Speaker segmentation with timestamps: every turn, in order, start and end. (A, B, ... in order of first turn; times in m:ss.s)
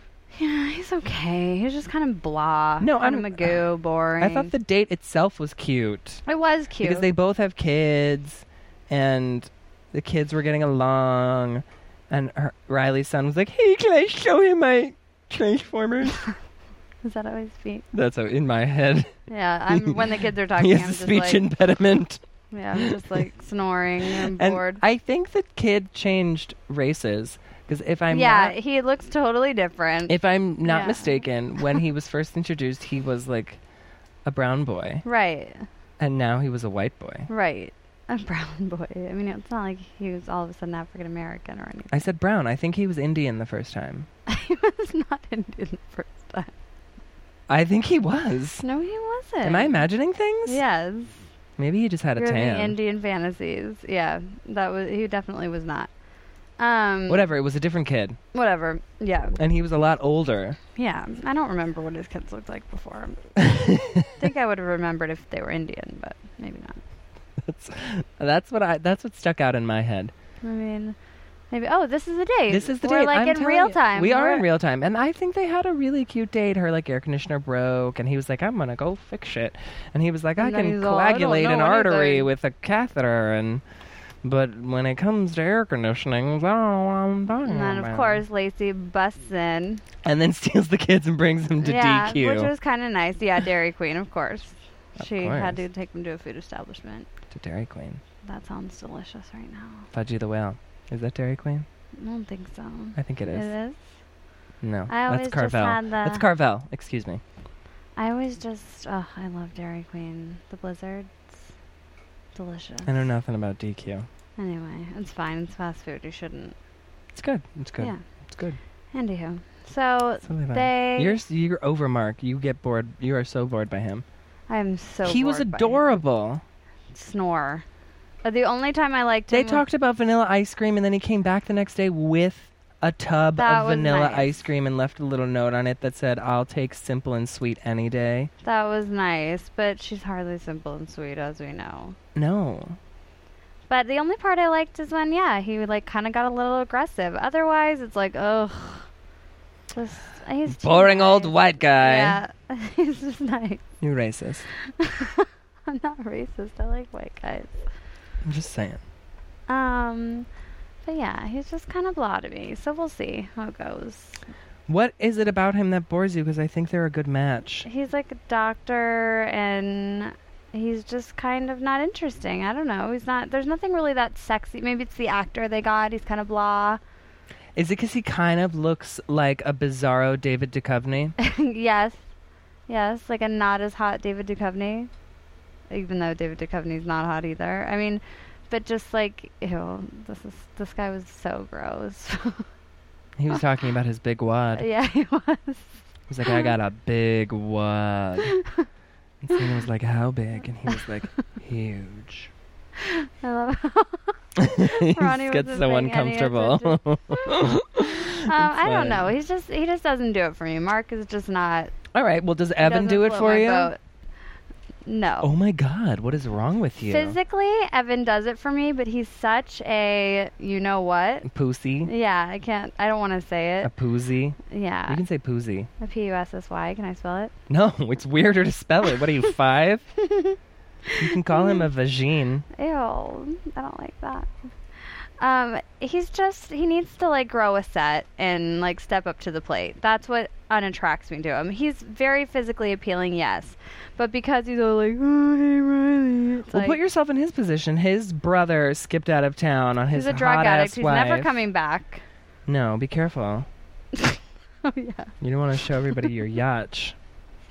0:00.3-0:04.5 A
0:02.8-0:03.6 B
0:04.2-0:06.2 B
0:06.2-0:07.1 A
0:06.8-0:16.2 B
0:17.0-0:17.8 A
0:17.9-0:19.1 B
0:19.3-0:21.4 A
0:19.7-0:22.2 B
0:22.5-0:24.8 A
0:22.7-0:23.2 B
0:24.1-0:28.6 B
0:28.1-0:31.8 A
0:30.1-0:33.6 B
0:34.2-0:35.0 B
0:35.0-0:35.7 A
0:36.0-0:37.3 B
0:37.3-0:42.0 A
0:41.9-0:44.1 B
0:44.3-0:46.5 A
0:47.5-0:48.6 B
0:48.6-0:49.8 A
0:49.4-0:50.6 B
0:50.4-0:51.2 A
0:51.6-0:52.8 B
0:52.2-0:55.9 A
0:56.6-0:57.3 A
0:57.1-0:58.2 B
0:58.3-0:59.4 A
0:59.4-1:00.6 B
1:00.8-1:03.4 A
1:03.4-1:04.1 B
1:04.2-1:06.8 A
1:07.4-1:10.1 B
1:10.4-1:11.0 A
1:11.5-1:14.4 A
1:12.5-1:23.6 B
1:20.4-1:22.3 A
1:24.2-1:28.2 B
1:27.4-1:29.8 A
1:30.0-1:32.5 B
1:31.6-1:37.1 A
1:35.0-1:35.6 B
1:37.3-1:38.0 B
1:38.2-1:39.9 A
1:39.9-1:41.7 B
1:42.0-1:43.8 A
1:43.0-1:43.5 B
1:44.6-1:47.2 B
1:44.9-1:46.2 A
1:48.0-1:51.3 A
1:52.3-1:53.0 A
1:52.8-1:54.1 B
1:54.4-1:56.5 A
1:57.1-1:58.6 B
1:58.9-2:01.2 A
2:00.2-2:04.0 B
2:04.5-2:06.0 A
2:05.0-2:06.4 B
2:06.9-2:07.6 A
2:08.2-2:09.6 A
2:09.3-2:18.3 B
2:13.4-2:14.3 A
2:18.4-2:22.0 A
2:22.1-2:22.8 B
2:23.7-2:28.9 A
2:29.7-2:33.6 A
2:30.5-2:32.2 B
2:33.8-2:34.5 B
2:34.8-2:37.6 A
2:38.2-2:38.8 B
2:39.5-2:40.3 A
2:40.8-2:44.2 A
2:44.7-2:47.7 B
2:47.6-2:56.8 A
2:57.6-3:01.1 B
3:01.2-3:02.0 A
3:02.7-3:04.9 A
3:05.7-3:12.4 A
3:13.2-3:14.7 B
3:14.5-3:16.5 A
3:16.1-3:18.3 B
3:19.2-3:22.3 B
3:22.8-3:27.4 A
3:24.4-3:29.1 B
3:28.2-3:31.7 A
3:31.9-3:33.7 B
3:32.6-3:33.8 A
3:34.8-3:35.3 A
3:35.2-3:37.2 B
3:36.8-3:41.3 A
3:41.2-3:41.9 B
3:41.8-3:43.7 A
3:43.6-3:45.7 B
3:44.5-3:45.0 A
3:45.8-3:47.3 A
3:47.5-3:49.9 B
3:50.0-3:51.6 A
3:51.0-3:52.4 B
3:52.6-3:54.3 A
3:54.9-4:06.8 A
4:06.5-4:11.4 B
4:09.9-4:12.0 A
4:12.5-4:13.5 B
4:14.0-4:15.1 A
4:15.2-4:17.0 B